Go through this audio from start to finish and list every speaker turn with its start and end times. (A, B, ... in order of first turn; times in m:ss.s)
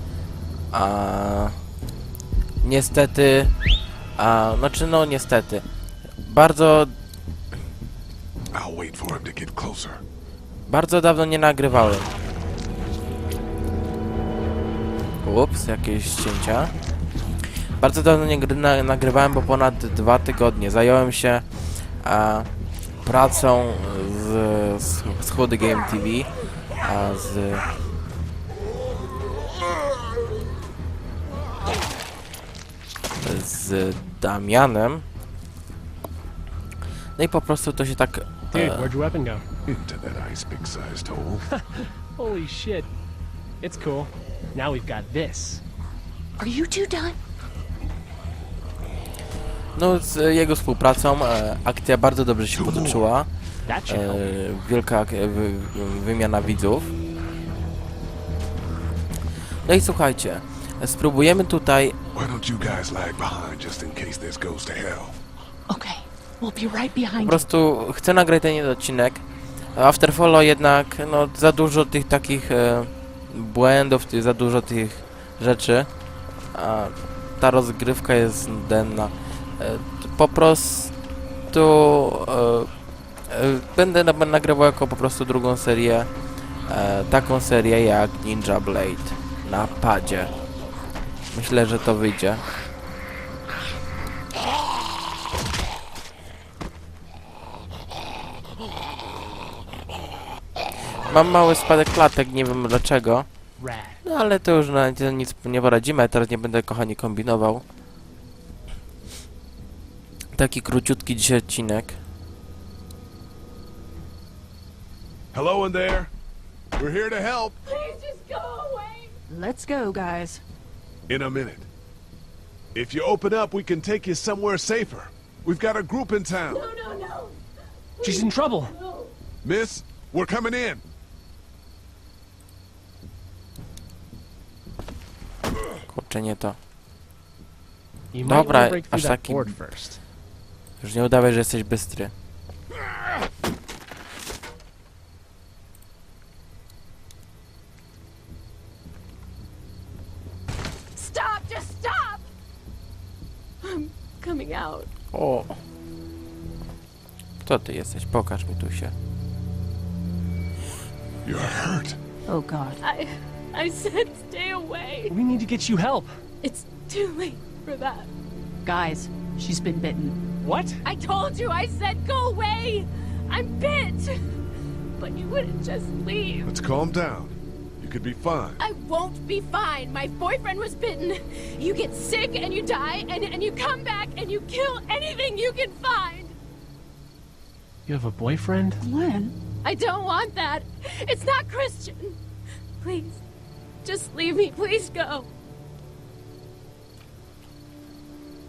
0:00.7-0:01.6 A
0:02.6-0:03.6 A
0:04.2-0:05.6 A
0:06.2-0:06.9 A
0:08.5-0:10.0 B
0:10.7-0:12.1 A
0:15.2-0:16.7 A
0:17.8-0:22.5 A
0:23.0-0:27.7 A
0:33.2-0:35.0 A
0:37.2-0:38.9 A
0:38.5-0:39.4 C
0:39.7-0:41.5 B
0:41.8-0:42.9 C
0:43.6-0:45.6 C
0:46.4-0:47.1 D
0:49.7-0:53.3 A
0:52.6-0:53.1 B
0:53.6-0:54.4 C
0:53.8-0:56.9 A
0:59.6-1:01.9 A
1:02.1-1:05.2 B
1:05.7-1:07.5 D
1:07.2-1:15.9 A
1:16.5-1:20.9 A
1:21.5-1:22.7 A
1:23.3-1:26.1 A
1:26.6-1:30.3 A
1:31.3-1:32.4 A
1:41.0-1:43.3 A
1:43.6-1:44.0 C
1:44.0-1:47.6 A
1:50.3-1:52.0 A
1:55.3-1:56.1 B
1:56.8-1:57.6 B
1:57.6-1:59.1 E
1:59.3-2:00.4 D
2:01.1-2:01.7 B
2:02.7-2:06.7 B
2:06.4-2:07.4 E
2:08.0-2:09.1 E
2:08.0-2:08.7 C
2:09.4-2:10.8 B
2:15.9-2:16.6 A
2:18.1-2:20.0 C
2:18.2-2:19.6 A
2:20.8-2:22.1 A
2:31.0-2:32.2 E
2:33.6-2:34.9 E
2:35.1-2:35.6 A
2:37.4-2:38.9 A
2:41.2-2:42.0 B
2:42.3-2:42.8 D
2:42.8-2:45.1 E
2:45.1-2:46.2 C
2:46.4-2:48.1 E
2:48.6-2:50.2 D
2:50.4-2:50.8 C
2:50.8-2:54.3 E
2:55.0-2:56.5 E
2:56.4-2:58.6 B
2:58.6-3:06.3 E
3:07.9-3:08.8 C
3:08.8-3:09.3 D
3:09.6-3:12.2 E
3:12.8-3:13.2 E
3:13.8-3:15.3 E